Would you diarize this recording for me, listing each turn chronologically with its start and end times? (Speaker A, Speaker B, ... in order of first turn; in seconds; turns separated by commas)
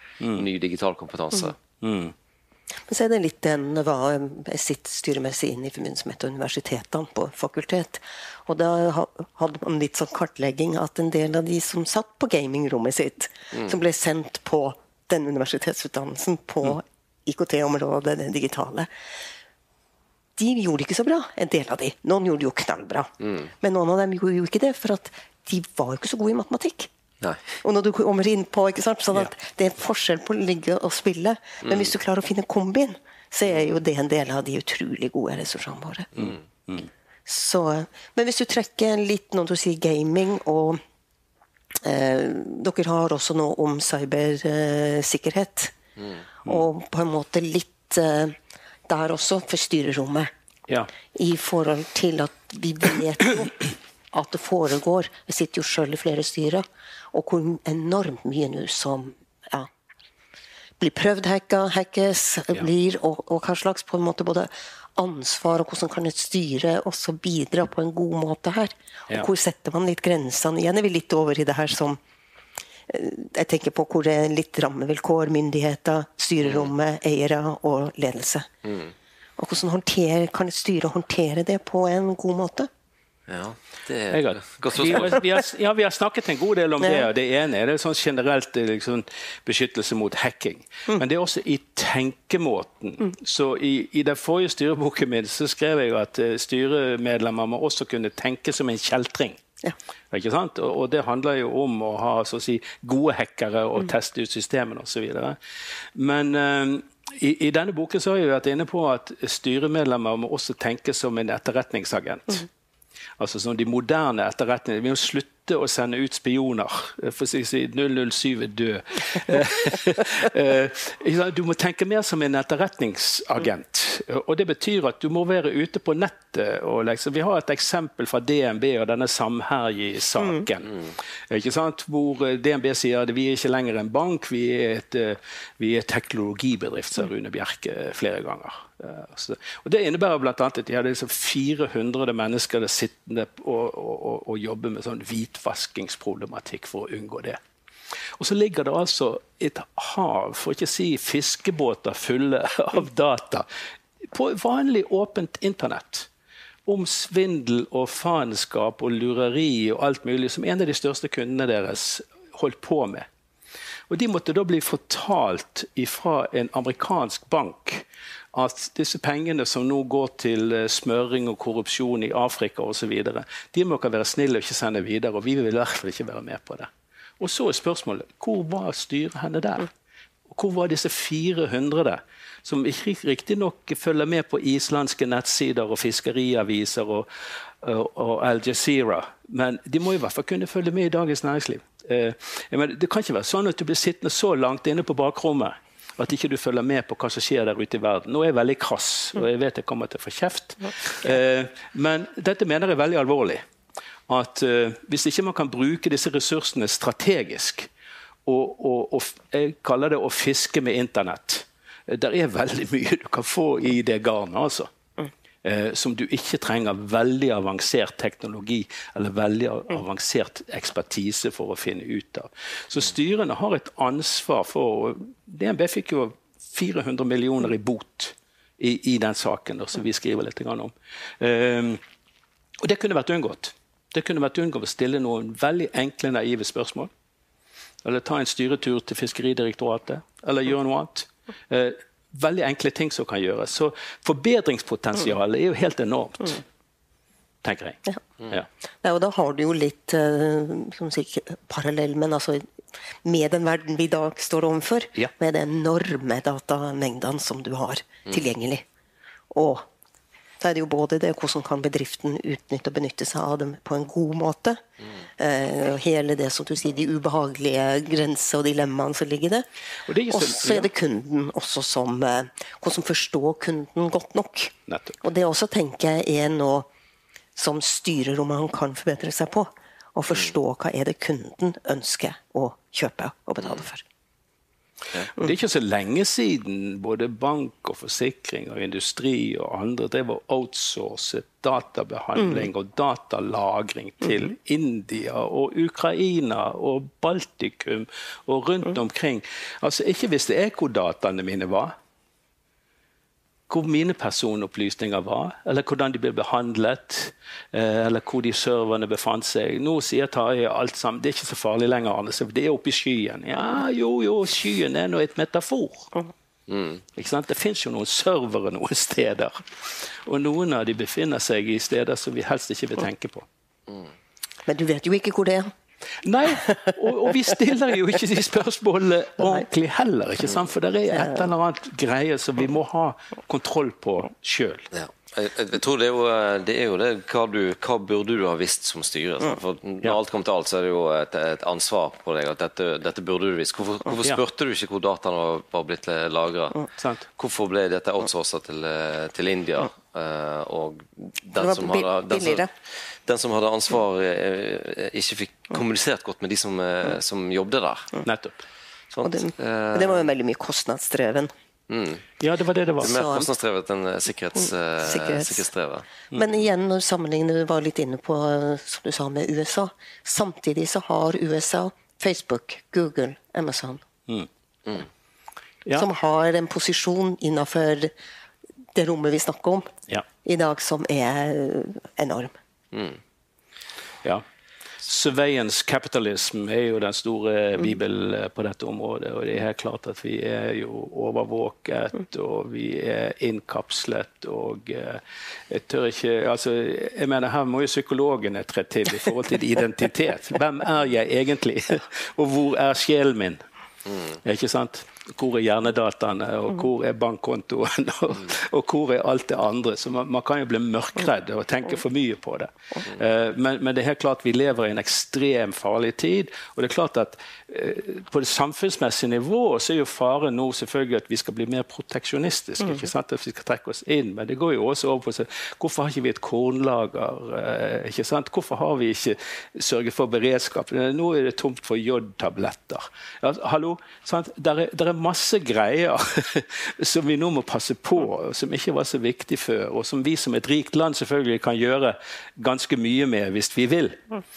Speaker A: 0.2-0.5, Speaker B: 0.3-1.6, Speaker A: 1.8-2.1, Speaker C: 2.9-18.9, Speaker C: 20.4-26.9, Speaker C: 27.6-36.1, Speaker A: 36.2-36.9, Speaker C: 37.3-40.8, Speaker C: 41.8-45.8, Speaker C: 46.5-48.4, Speaker C: 48.9-50.3, Speaker C: 51.1-59.7, Speaker C: 60.8-72.0, Speaker C: 72.9-78.5, Speaker B: 76.4-76.7, Speaker B: 78.6-78.9, Speaker C: 79.4-82.7, Speaker B: 83.3-85.2, Speaker A: 84.1-99.4, Speaker A: 100.1-105.4, Speaker A: 106.0-112.5, Speaker A: 113.2-147.4, Speaker A: 148.2-153.5, Speaker A: 154.1-156.1, Speaker A: 156.7-163.1, Speaker A: 163.9-179.7, Speaker A: 180.3-187.1, Speaker A: 187.6-203.4, Speaker A: 204.1-207.7, Speaker A: 208.3-214.7, Speaker A: 215.4-231.8, Speaker A: 232.6-236.9, Speaker A: 237.8-246.4, Speaker A: 247.4-248.5, Speaker C: 248.8-252.5, Speaker C: 253.1-258.6, Speaker C: 259.3-259.7, Speaker C: 260.4-264.6, Speaker C: 265.2-269.5, Speaker A: 269.9-270.7, Speaker C: 270.1-276.7, Speaker A: 274.7-275.0, Speaker C: 277.4-283.8, Speaker A: 285.1-301.8, Speaker A: 303.5-315.9, Speaker B: 316.5-316.8, Speaker A: 316.9-323.3, Speaker C: 324.5-325.5, Speaker A: 326.0-334.7, Speaker B: 334.7-358.0, Speaker A: 346.8-347.1, Speaker C: 351.4-352.5, Speaker A: 358.0-358.4, Speaker B: 358.9-360.1, Speaker C: 359.0-361.3, Speaker B: 361.7-362.0, Speaker A: 362.2-363.1, Speaker B: 362.8-365.9, Speaker C: 362.8-363.3, Speaker C: 364.8-365.4, Speaker C: 366.1-373.8, Speaker C: 375.7-377.9, Speaker C: 378.8-379.7, Speaker C: 380.2-382.3, Speaker B: 382.7-383.0, Speaker A: 384.8-403.4, Speaker A: 404.0-444.0